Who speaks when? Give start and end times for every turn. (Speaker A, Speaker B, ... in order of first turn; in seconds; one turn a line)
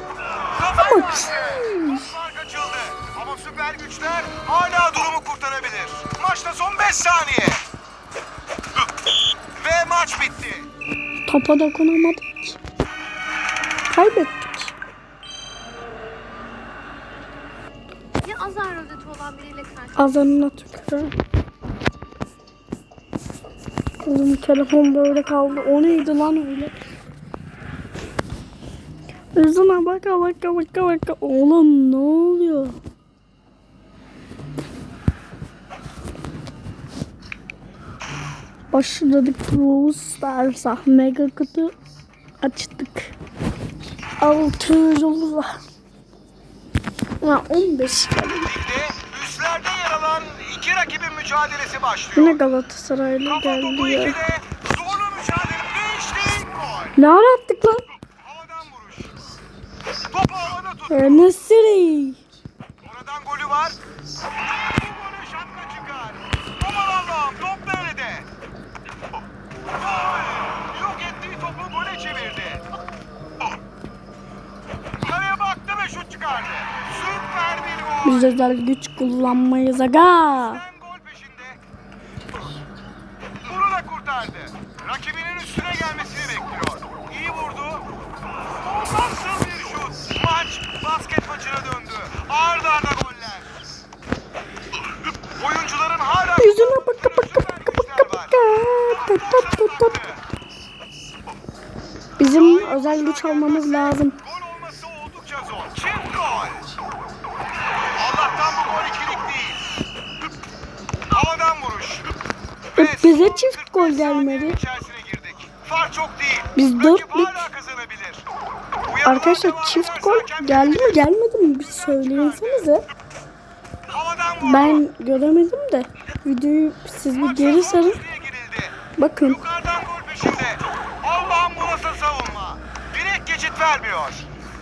Speaker A: 0.5-7.6
Speaker B: 0.7-2.1
Speaker A: 9.6-10.7
Speaker B: 11.3-12.6
Speaker B: 13.9-14.7
Speaker C: 18.2-20.3
Speaker B: 19.9-21.1
Speaker B: 24.0-26.8
Speaker B: 29.3-32.8
Speaker B: 38.7-41.7
Speaker B: 42.4-43.1
Speaker B: 44.2-45.6
Speaker B: 47.2-48.5
Speaker A: 48.5-52.4
Speaker B: 52.1-54.2
Speaker A: 53.2-56.9
Speaker B: 57.0-57.8
Speaker A: 58.2-59.2
Speaker A: 60.1-61.4
Speaker B: 60.9-62.2
Speaker A: 62.8-63.8
Speaker A: 64.7-68.3
Speaker A: 69.7-72.6
Speaker A: 75.0-78.3
Speaker B: 78.0-80.6
Speaker A: 80.3-81.6
Speaker A: 83.4-87.8
Speaker A: 88.4-93.5
Speaker A: 95.3-100.2
Speaker B: 96.4-100.0
Speaker B: 102.2-104.2
Speaker A: 102.2-106.7
Speaker A: 108.0-109.6
Speaker A: 111.1-112.1
Speaker A: 112.7-118.2
Speaker B: 112.8-114.6
Speaker B: 116.5-117.5
Speaker A: 118.8-121.0
Speaker B: 119.0-122.8
Speaker A: 121.8-122.7
Speaker A: 123.9-124.8
Speaker B: 124.4-128.0
Speaker A: 127.1-134.3
Speaker B: 129.0-129.4